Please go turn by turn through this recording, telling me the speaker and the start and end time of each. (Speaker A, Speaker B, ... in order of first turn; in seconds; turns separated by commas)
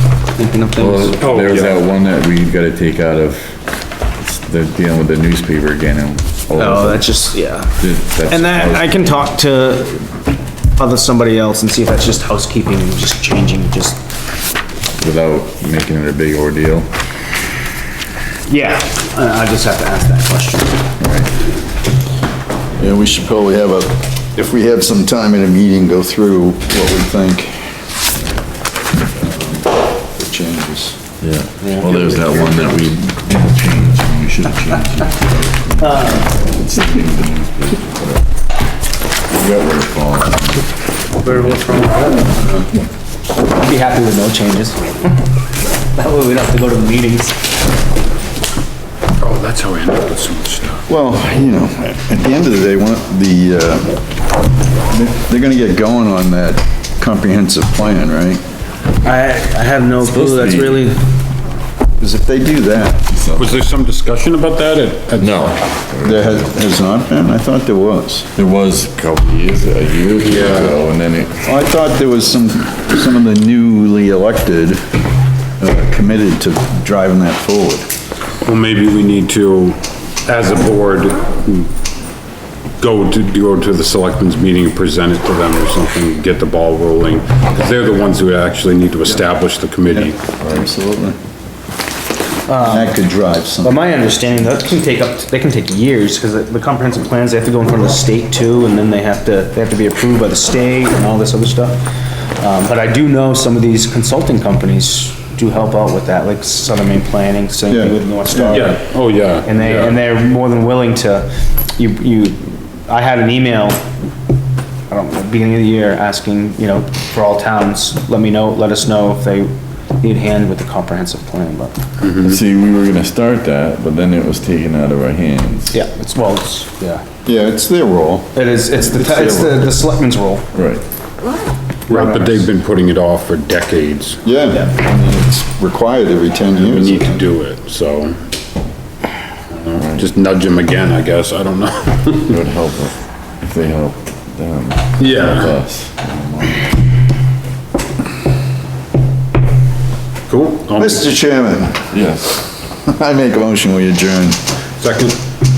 Speaker A: 0.3-1.3, Speaker B: 0.8-3.6, Speaker C: 1.2-1.8, Speaker B: 4.2-7.0, Speaker A: 6.5-10.1, Speaker B: 7.8-9.2, Speaker A: 10.8-14.0, Speaker B: 15.0-16.9, Speaker A: 18.5-20.8, Speaker B: 21.0-21.3, Speaker D: 22.8-27.8, Speaker D: 29.1-31.0, Speaker B: 31.2-38.2, Speaker A: 31.6-32.4, Speaker A: 35.8-36.5, Speaker B: 39.3-40.7, Speaker A: 41.2-42.3, Speaker A: 43.5-45.2, Speaker A: 45.9-47.5, Speaker C: 49.2-50.8, Speaker D: 50.9-54.0, Speaker D: 54.9-58.4, Speaker A: 59.0-61.0, Speaker B: 60.0-60.8, Speaker D: 62.0-63.0, Speaker B: 63.1-63.6, Speaker C: 63.4-65.6, Speaker B: 65.2-66.5, Speaker D: 66.0-68.3, Speaker B: 68.4-71.4, Speaker C: 70.2-70.7, Speaker D: 71.4-74.8, Speaker D: 75.6-77.9, Speaker C: 78.4-81.7, Speaker C: 82.8-90.2, Speaker D: 89.9-91.2, Speaker A: 92.5-93.0, Speaker D: 92.6-93.8, Speaker A: 93.6-101.8, Speaker A: 102.4-108.8, Speaker D: 107.7-108.7, Speaker C: 108.5-110.0, Speaker A: 109.4-113.8, Speaker A: 114.9-121.7, Speaker C: 122.0-122.4, Speaker B: 122.2-125.7, Speaker A: 125.7-127.0, Speaker D: 127.2-129.7, Speaker A: 128.3-130.5, Speaker B: 130.5-130.8, Speaker C: 131.9-134.2, Speaker D: 134.2-137.2, Speaker C: 136.6-138.2, Speaker C: 139.5-142.4, Speaker B: 139.8-140.1, Speaker B: 142.2-146.8, Speaker C: 145.0-145.5, Speaker C: 150.3-151.0, Speaker D: 150.8-151.9, Speaker B: 151.9-152.4, Speaker D: 152.8-154.4, Speaker C: 154.8-155.2